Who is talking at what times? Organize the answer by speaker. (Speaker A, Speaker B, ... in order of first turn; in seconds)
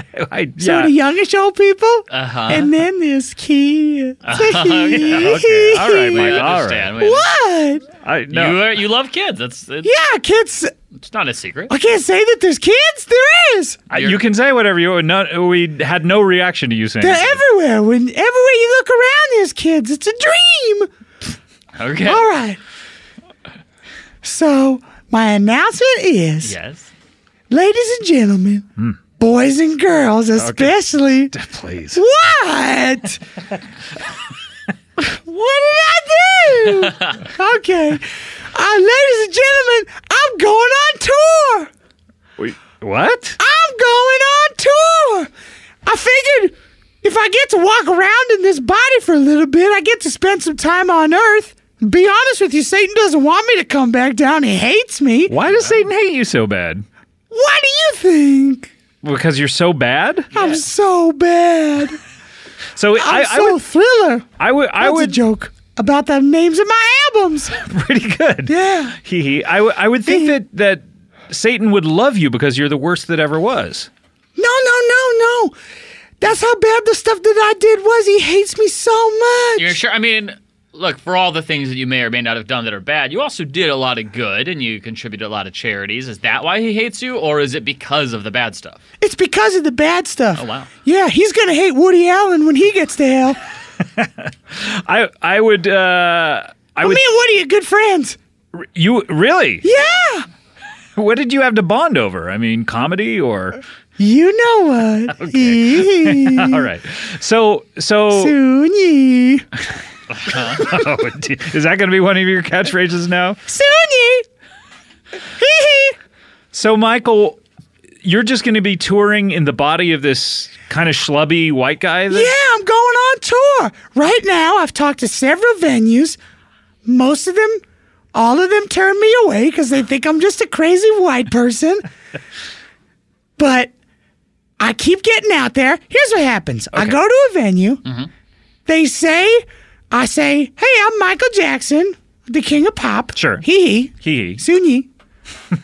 Speaker A: 0.1-0.9, 5.1-6.9, 8.0-8.6, 13.9-17.4, 30.4-30.8, 31.3-32.0, 42.4-43.4, 55.3-56.8, 59.0-60.3, 62.8-63.6, 64.4-65.2, 67.6-73.9, 93.8-97.0, 98.6-99.7, 101.0-103.6, 105.1-108.4, 110.5-113.4, 116.5-117.4, 118.0-122.3, 143.1-143.4, 144.0-144.4
Speaker B: 0.6-6.5, 7.0-7.9, 9.8-10.7, 11.7-13.8, 17.0-20.9, 22.0-22.6, 24.2-26.5, 27.5-28.6, 29.2-31.3, 31.9-33.2, 35.0-41.7, 43.4-45.3, 45.9-55.3, 57.3-58.7, 60.3-62.0, 63.0-64.2, 64.8-67.5, 68.5-69.0, 70.0-70.4, 74.3-75.5, 76.2-79.8, 89.0-93.4, 96.8-98.2, 99.6-100.3, 104.0-106.7, 108.1-109.5, 113.5-114.2, 115.3-116.0, 122.1-126.2, 126.8-127.6, 128.1-131.8, 133.4-133.7, 134.6-137.8, 138.7-144.9
Speaker C: 2.1-2.7, 4.2-7.3, 8.3-9.9, 11.0-11.7, 13.9-14.2, 21.8-22.3, 26.4-26.9, 55.5-55.9, 60.3-60.6, 79.6-88.8, 90.3-90.7, 110.1-110.7, 137.8-138.1